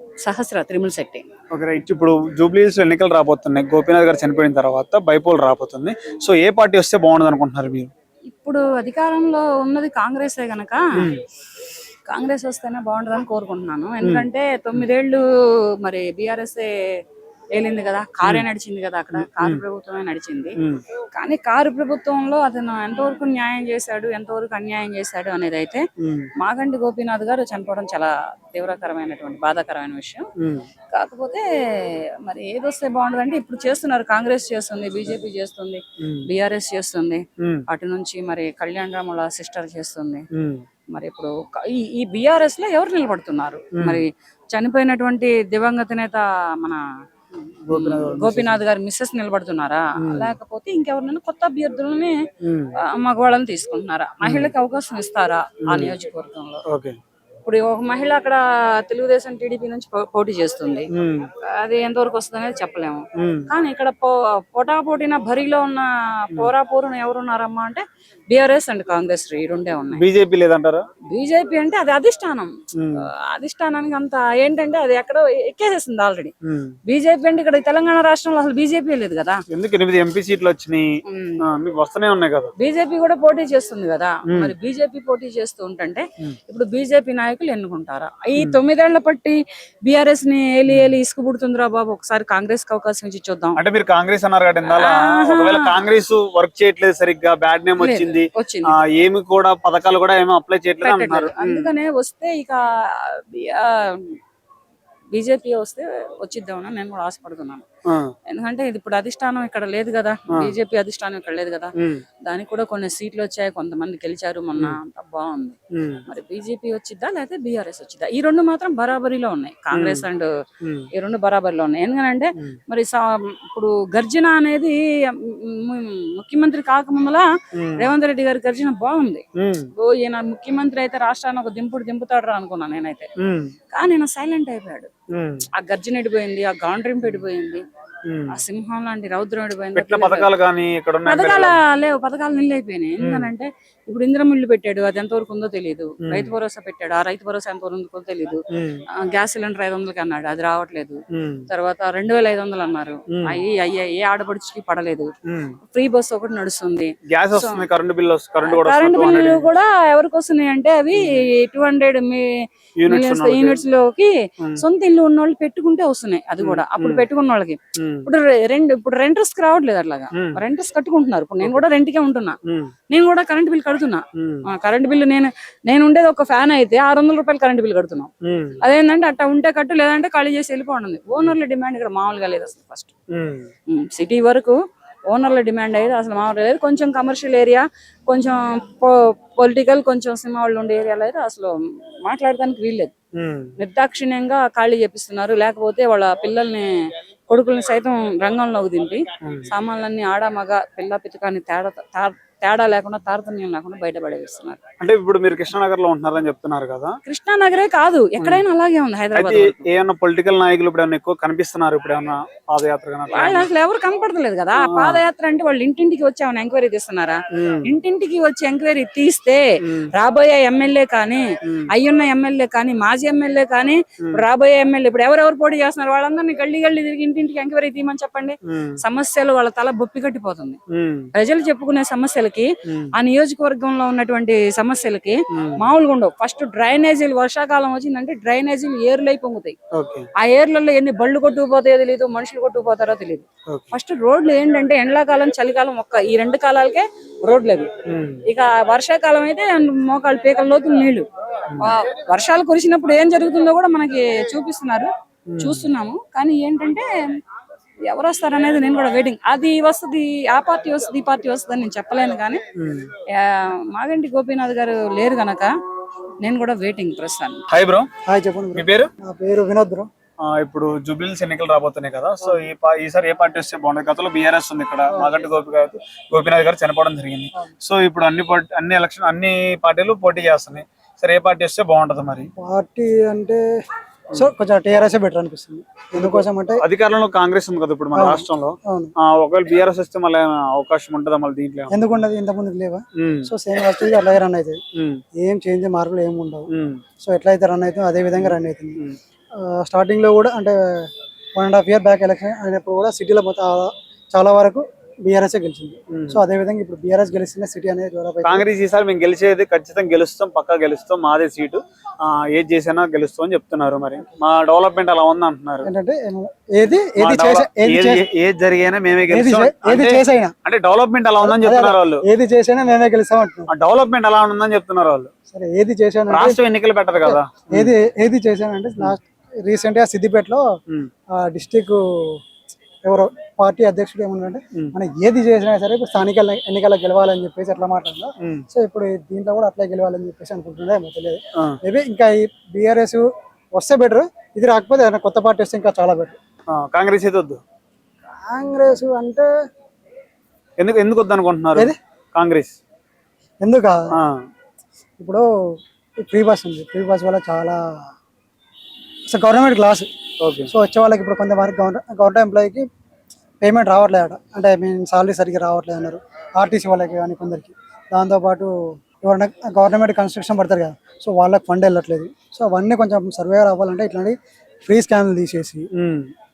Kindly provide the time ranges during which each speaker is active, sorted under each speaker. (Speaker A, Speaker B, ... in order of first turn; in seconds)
Speaker A: 0.2-1.3, 8.3-11.1, 12.1-15.2, 15.8-16.7, 17.5-20.6, 21.1-25.8, 26.4-30.2, 30.9-40.2, 40.9-46.8, 47.7-52.1, 52.7-56.6, 57.4-60.9, 61.4-70.0, 71.0-76.3, 76.8-79.4, 81.1-81.4, 82.6-93.6, 94.6-95.8, 97.8-98.8, 100.8-104.2, 105.1-107.6, 108.3-111.7, 112.2-120.3, 120.9-129.2, 129.8-133.1, 133.7-134.9, 135.5-137.6, 138.3-140.3, 141.0-148.4, 148.9-155.1, 155.7-157.6, 158.4-172.4, 172.9-178.1, 178.6-182.9, 183.7-184.6, 185.1-192.9, 193.6-196.7, 197.3-204.6, 207.1-209.6, 213.1-230.6, 231.1-239.6, 240.2-247.7, 248.2-251.1, 251.6-254.9, 255.4-256.9, 257.9-262.4, 263.1-265.5, 266.2-267.5
Speaker B: 1.5-7.9, 11.0-11.2, 19.1-19.6, 26.0-26.3, 30.4-30.7, 36.0-36.3, 37.4-37.6, 40.3-40.6, 43.8-44.0, 47.5-48.6, 50.0-50.4, 52.4-52.7, 54.2-54.5, 55.7-55.9, 56.7-57.0, 60.9-61.3, 63.1-63.5, 70.0-70.9, 72.7-73.0, 76.4-76.8, 79.5-80.8, 81.4-82.5, 84.3-84.5, 90.7-90.9, 93.6-101.7, 107.9-108.1, 111.8-112.0, 115.7-116.0, 119.7-120.0, 120.6-120.9, 127.5-127.9, 129.4-129.7, 133.2-133.5, 135.1-135.5, 138.1-138.4, 139.8-141.6, 143.0-143.3, 146.0-146.3, 148.5-148.8, 151.1-151.4, 153.1-153.4, 155.2-155.6, 157.1-159.5, 160.9-161.2, 162.8-163.6, 166.4-167.1, 167.8-168.1, 170.1-170.4, 172.4-172.7, 174.2-174.4, 178.2-178.6, 183.1-183.5, 193.1-193.5, 199.2-199.5, 204.8-207.0, 209.1-213.5, 214.6-215.0, 217.3-217.7, 219.6-219.9, 228.5-228.8, 230.7-231.1, 232.7-232.9, 235.3-235.7, 239.7-240.1, 247.8-248.2, 251.5-251.8, 255.3-255.7, 262.6-262.9, 267.5-267.9, 268.5-268.9, 270.2-282.3, 285.9-291.8, 293.0-293.3, 294.7-295.0, 296.5-296.8, 298.2-299.0, 305.9-306.2, 308.2-315.7, 317.0-322.0, 323.5-325.1, 326.1-327.7, 346.5-347.4, 350.6-352.6, 360.2-360.5, 375.7-376.1
Speaker C: 268.1-269.9, 282.4-283.4, 284.1-286.6, 287.9-288.9, 291.7-294.6, 295.2-296.5, 297.0-298.8, 299.4-308.4, 315.6-318.1, 319.1-320.3, 321.2-323.5, 325.3-326.4, 327.0-330.4, 331.2-332.2, 332.8-346.1, 348.2-349.3, 353.4-353.8, 355.0-355.2, 356.0-357.6, 359.1-359.9, 360.5-362.6, 363.4-375.7